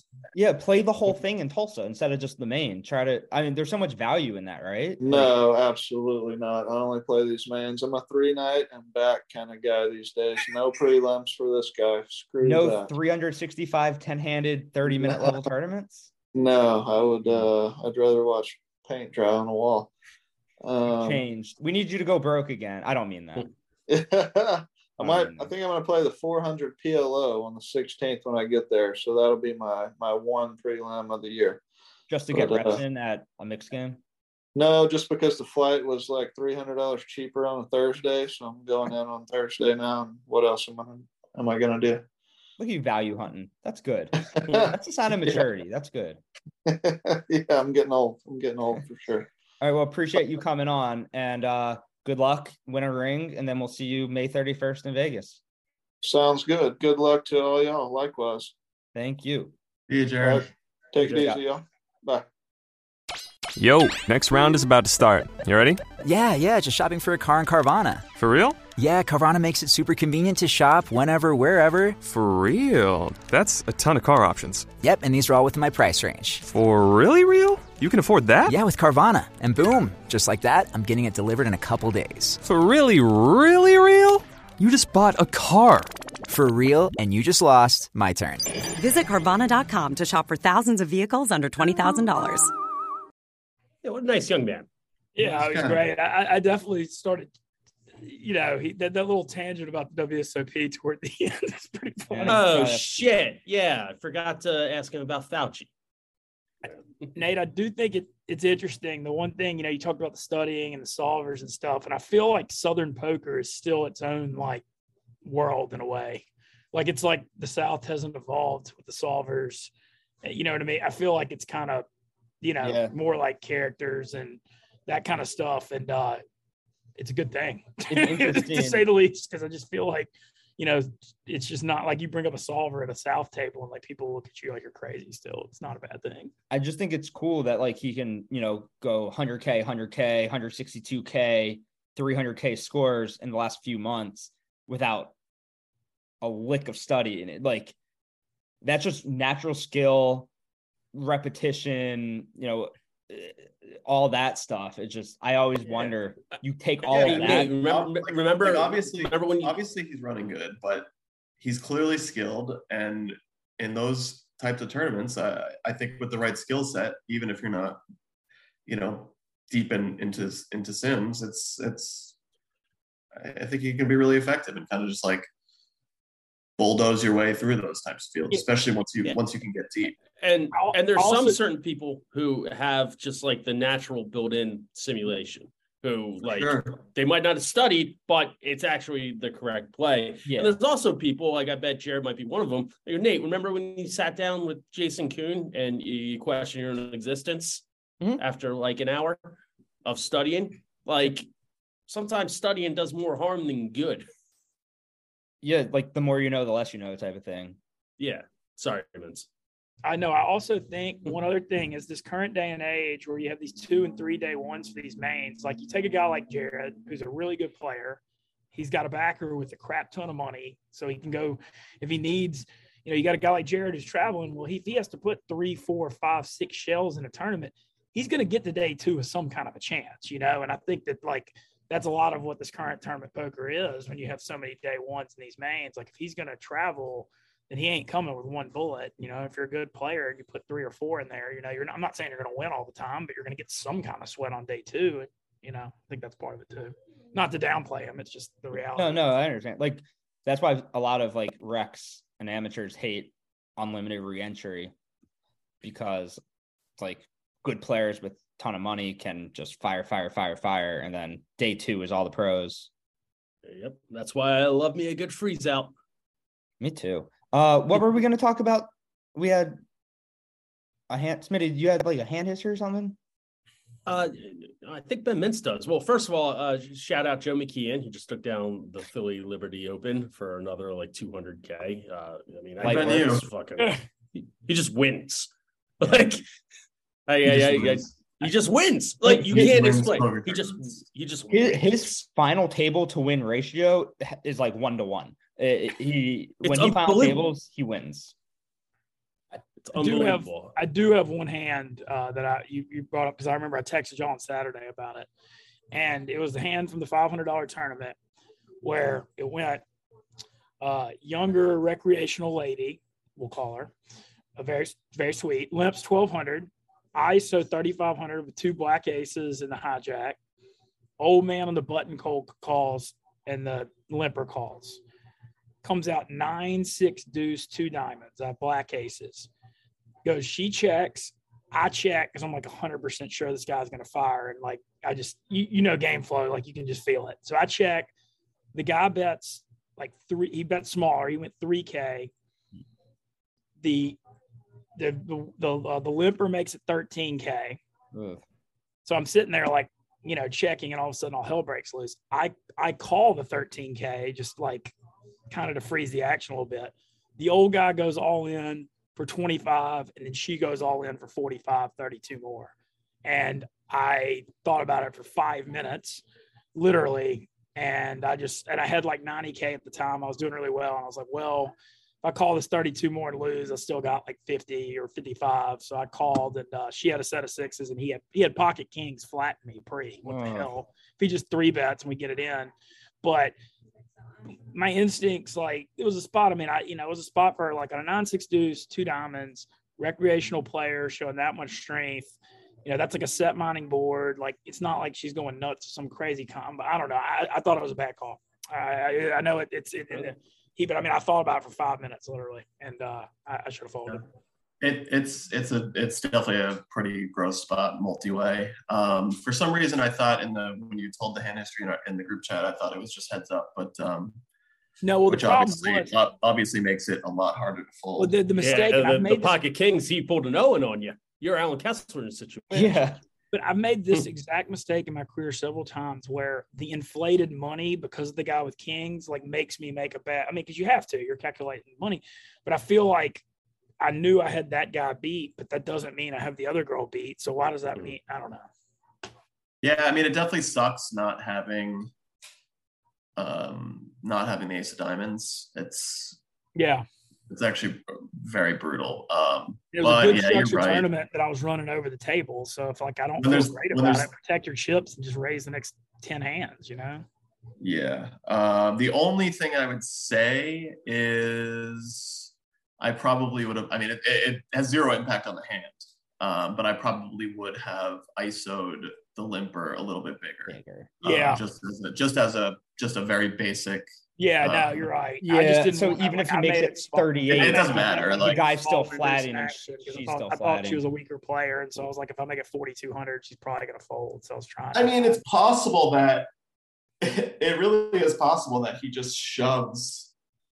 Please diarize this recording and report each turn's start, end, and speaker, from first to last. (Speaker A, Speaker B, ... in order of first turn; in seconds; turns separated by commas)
Speaker A: 0.3-5.3, Speaker B: 5.0-12.9, Speaker A: 12.4-16.1, Speaker B: 14.9-15.4, Speaker B: 16.3-19.9, Speaker B: 20.6-21.2, Speaker A: 20.9-23.5, Speaker B: 23.9-31.6, Speaker A: 25.0-25.5, Speaker A: 32.1-34.0, Speaker B: 32.3-32.8, Speaker B: 34.5-42.0, Speaker A: 42.6-46.2, Speaker B: 44.2-44.7, Speaker B: 46.6-49.3, Speaker A: 49.6-55.4, Speaker B: 56.0-58.5, Speaker A: 58.9-59.5, Speaker C: 59.9-60.5, Speaker B: 60.2-62.3, Speaker A: 61.0-61.4, Speaker D: 63.6-65.7, Speaker E: 66.0-68.0, Speaker D: 68.2-68.5, Speaker E: 68.8-72.0, Speaker D: 72.0-74.5, Speaker E: 74.8-76.4, Speaker D: 76.5-78.5, Speaker E: 78.4-82.4, Speaker D: 82.5-85.9, Speaker E: 86.3-88.4, Speaker F: 88.8-92.5, Speaker G: 93.8-94.7, Speaker H: 95.2-97.3, Speaker C: 95.2-95.8, Speaker H: 98.0-102.5, Speaker A: 102.1-102.9, Speaker G: 102.3-105.7, Speaker H: 107.1-114.6, Speaker H: 115.2-119.7, Speaker H: 120.2-121.9, Speaker H: 122.4-126.2, Speaker A: 122.6-122.9, Speaker H: 127.0-136.3, Speaker A: 127.9-128.9, Speaker A: 136.5-145.1, Speaker A: 146.2-147.8, Speaker A: 148.6-150.3, Speaker A: 150.9-157.5, Speaker G: 156.9-159.5, Speaker C: 156.9-160.9, Speaker C: 161.4-167.8, Speaker C: 168.7-172.1, Speaker C: 173.2-175.3, Speaker C: 176.6-180.0, Speaker G: 180.1-197.6, Speaker H: 180.5-181.4, Speaker C: 186.2-186.8, Speaker A: 190.2-190.6, Speaker G: 198.2-201.3, Speaker G: 201.9-204.1, Speaker A: 205.4-207.6, Speaker G: 208.0-209.3, Speaker H: 209.8-218.0, Speaker H: 218.5-249.1, Speaker A: 248.7-254.7, Speaker A: 255.6-256.2, Speaker A: 256.8-262.7, Speaker G: 263.4-265.7, Speaker A: 266.6-269.6, Speaker A: 270.9-273.0, Speaker G: 273.9-285.3, Speaker A: 282.6-283.1, Speaker C: 282.6-283.3, Speaker G: 285.8-286.2, Speaker G: 287.1-291.9, Speaker C: 287.2-287.9, Speaker C: 289.0-290.8, Speaker A: 289.3-289.7, Speaker A: 291.3-298.1, Speaker G: 296.4-297.3, Speaker G: 299.6-300.5, Speaker H: 299.8-305.1, Speaker H: 305.7-308.0, Speaker H: 308.6-309.6, Speaker H: 310.6-313.7, Speaker H: 314.4-320.2, Speaker H: 321.0-324.8, Speaker H: 325.6-329.3, Speaker H: 330.0-337.9, Speaker H: 338.5-342.1, Speaker H: 343.6-344.0, Speaker H: 344.8-347.6, Speaker A: 347.9-348.2, Speaker H: 348.8-354.7, Speaker H: 355.3-362.5, Speaker H: 363.0-366.0, Speaker H: 366.5-383.3, Speaker A: 380.0-380.5, Speaker H: 384.5-404.1, Speaker C: 404.6-414.2, Speaker H: 414.8-415.9, Speaker C: 415.1-418.1, Speaker H: 418.0-419.3, Speaker G: 418.4-423.0, Speaker A: 422.5-423.0, Speaker H: 423.3-433.2, Speaker H: 433.8-438.5, Speaker C: 439.6-441.9, Speaker C: 443.2-446.2, Speaker H: 446.6-446.8, Speaker C: 447.3-450.9, Speaker H: 449.7-457.1, Speaker C: 453.2-454.1, Speaker C: 457.6-473.9, Speaker A: 470.5-470.9, Speaker H: 471.0-471.4, Speaker H: 474.2-485.2, Speaker C: 474.4-474.9, Speaker A: 475.2-480.8, Speaker C: 477.3-478.5, Speaker C: 484.7-486.3, Speaker C: 487.0-490.1